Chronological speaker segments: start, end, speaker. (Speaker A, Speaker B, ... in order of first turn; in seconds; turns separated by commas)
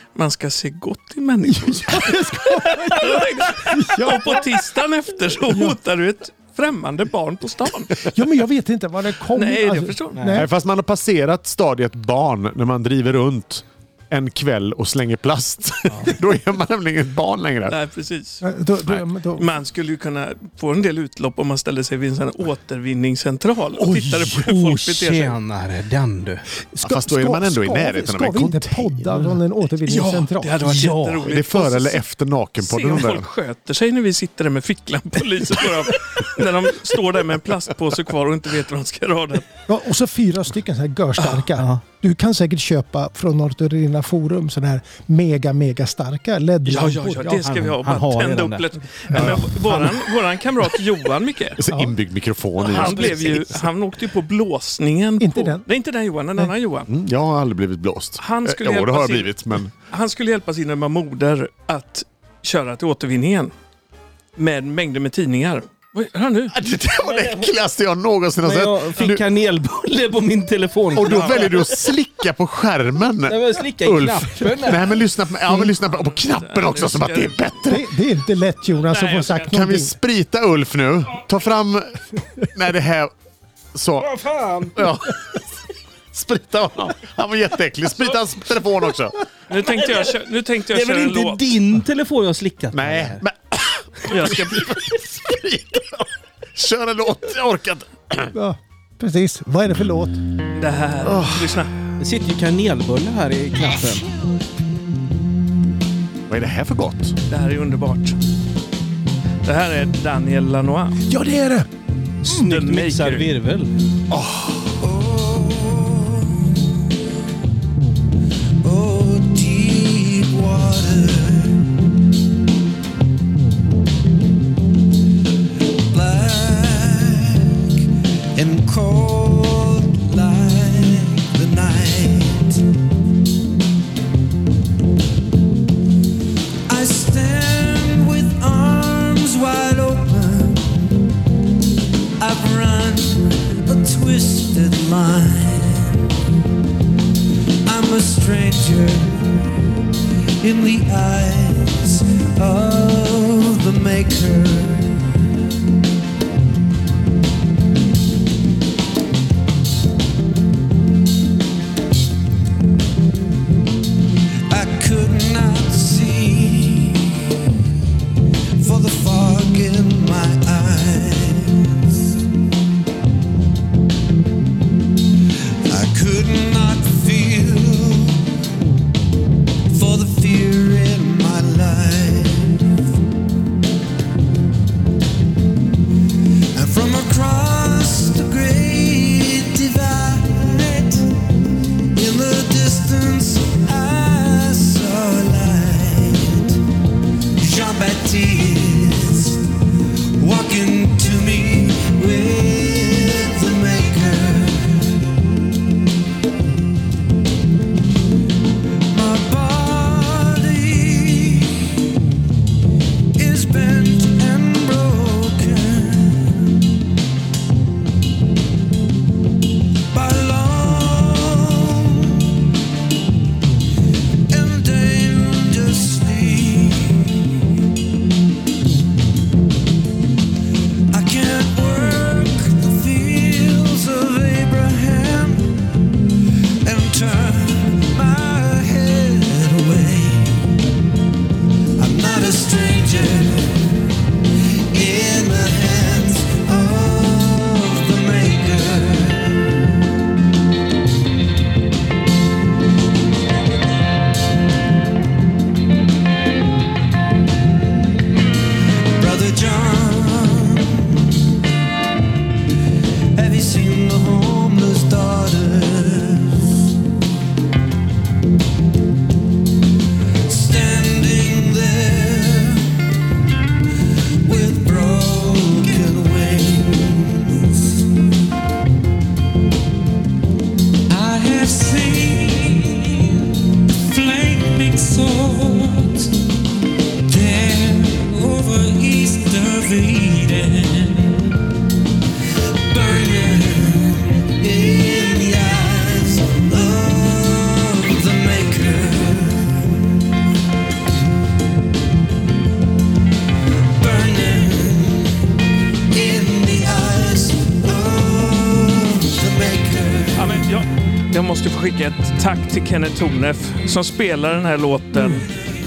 Speaker A: 0.1-8.1, Speaker B: 1.4-4.5, Speaker B: 5.5-5.8, Speaker B: 8.1-10.5, Speaker A: 9.3-10.4, Speaker C: 10.2-10.4, Speaker D: 10.3-17.8, Speaker A: 17.7-18.4, Speaker B: 18.4-19.5, Speaker A: 19.4-25.4, Speaker C: 24.2-26.4, Speaker B: 26.7-30.9, Speaker D: 26.8-29.4, Speaker A: 29.9-32.0, Speaker C: 30.6-31.2, Speaker D: 31.2-33.3, Speaker A: 32.6-39.5, Speaker B: 39.7-47.4, Speaker A: 41.2-41.5, Speaker A: 46.6-51.6, Speaker C: 47.2-50.0, Speaker D: 49.1-49.5, Speaker D: 51.6-53.7, Speaker B: 51.7-51.9, Speaker A: 52.6-56.9, Speaker C: 52.8-53.1, Speaker B: 55.2-55.6, Speaker D: 56.9-59.7, Speaker A: 58.2-63.5, Speaker A: 64.4-66.5, Speaker D: 66.5-69.3, Speaker C: 67.0-67.5, Speaker C: 68.4-71.8, Speaker D: 70.9-77.9, Speaker A: 71.0-71.5, Speaker C: 73.3-75.0, Speaker A: 75.9-77.7, Speaker B: 77.7-79.9, Speaker A: 78.9-79.5, Speaker D: 79.5-83.1, Speaker D: 83.7-84.1, Speaker C: 84.0-84.9, Speaker D: 84.8-85.4, Speaker D: 86.1-89.2, Speaker A: 89.5-91.6, Speaker C: 89.5-90.1, Speaker C: 90.7-93.2, Speaker D: 92.7-98.3, Speaker A: 94.1-94.8, Speaker B: 98.3-100.2, Speaker A: 100.6-101.7, Speaker D: 101.0-101.7, Speaker C: 102.0-104.1, Speaker D: 106.3-107.2, Speaker A: 107.3-108.2, Speaker A: 109.4-111.0, Speaker B: 111.1-111.7, Speaker C: 112.2-113.7, Speaker A: 112.3-113.3, Speaker D: 114.1-114.7, Speaker E: 142.5-142.7, Speaker E: 151.0-151.2, Speaker E: 164.8-165.2, Speaker E: 166.1-166.8, Speaker E: 168.7-169.0, Speaker E: 170.7-171.2, Speaker E: 175.9-178.0, Speaker E: 179.7-182.4, Speaker E: 186.6-191.0, Speaker E: 192.0-196.2, Speaker E: 197.4-199.4, Speaker E: 200.2-204.3, Speaker E: 209.0-211.4, Speaker E: 213.3-215.9, Speaker E: 219.9-221.8, Speaker E: 224.3-227.0, Speaker E: 230.9-235.3, Speaker E: 236.7-240.2, Speaker E: 241.8-243.5, Speaker E: 244.7-249.1, Speaker E: 259.0-260.8, Speaker E: 263.2-266.4, Speaker E: 270.3-272.6, Speaker E: 274.2-277.1, Speaker E: 280.9-283.1, Speaker E: 283.9-286.1, Speaker E: 287.1-291.1, Speaker E: 292.7-299.6, Speaker E: 303.8-305.1, Speaker E: 305.9-310.2, Speaker A: 310.1-315.3